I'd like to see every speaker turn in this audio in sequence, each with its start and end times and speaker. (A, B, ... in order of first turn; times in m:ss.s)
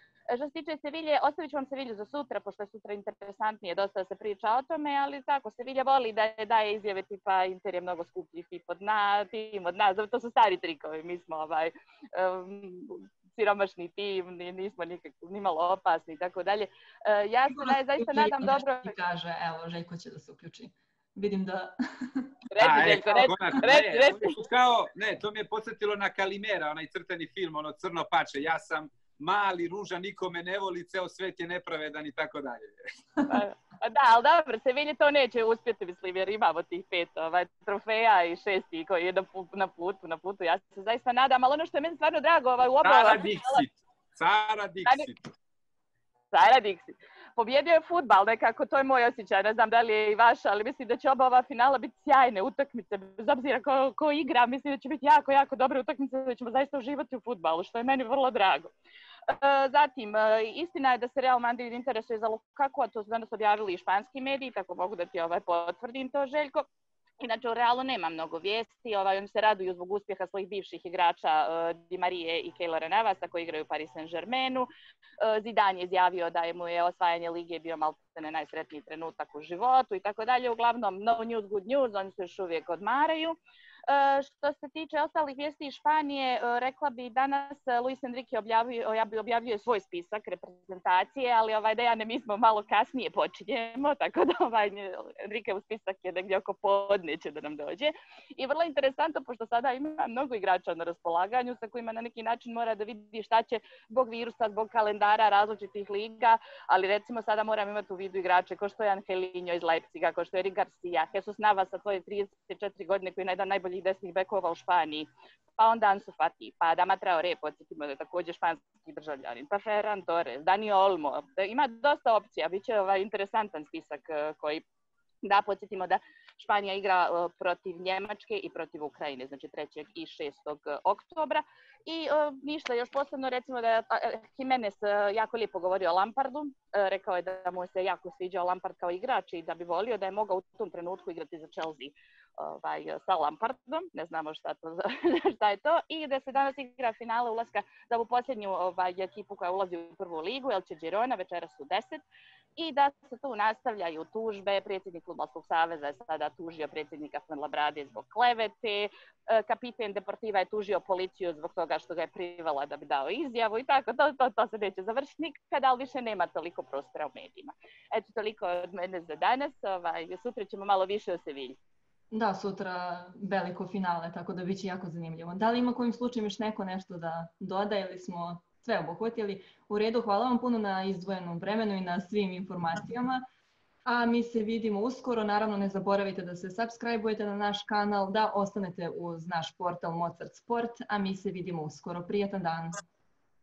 0:00.3-0:19.0 A
0:17.6-0:22.3 B
0:22.5-0:24.4 A
0:22.6-0:32.7 C
0:33.3-0:43.6 A
0:42.8-0:45.2 C
0:46.3-0:58.7 A
0:59.3-1:06.6 A
1:07.2-1:14.7 A
1:15.2-2:04.6 A
2:05.2-2:32.0 A
2:32.6-2:51.6 A
2:52.1-3:03.2 B
3:03.8-3:12.8 B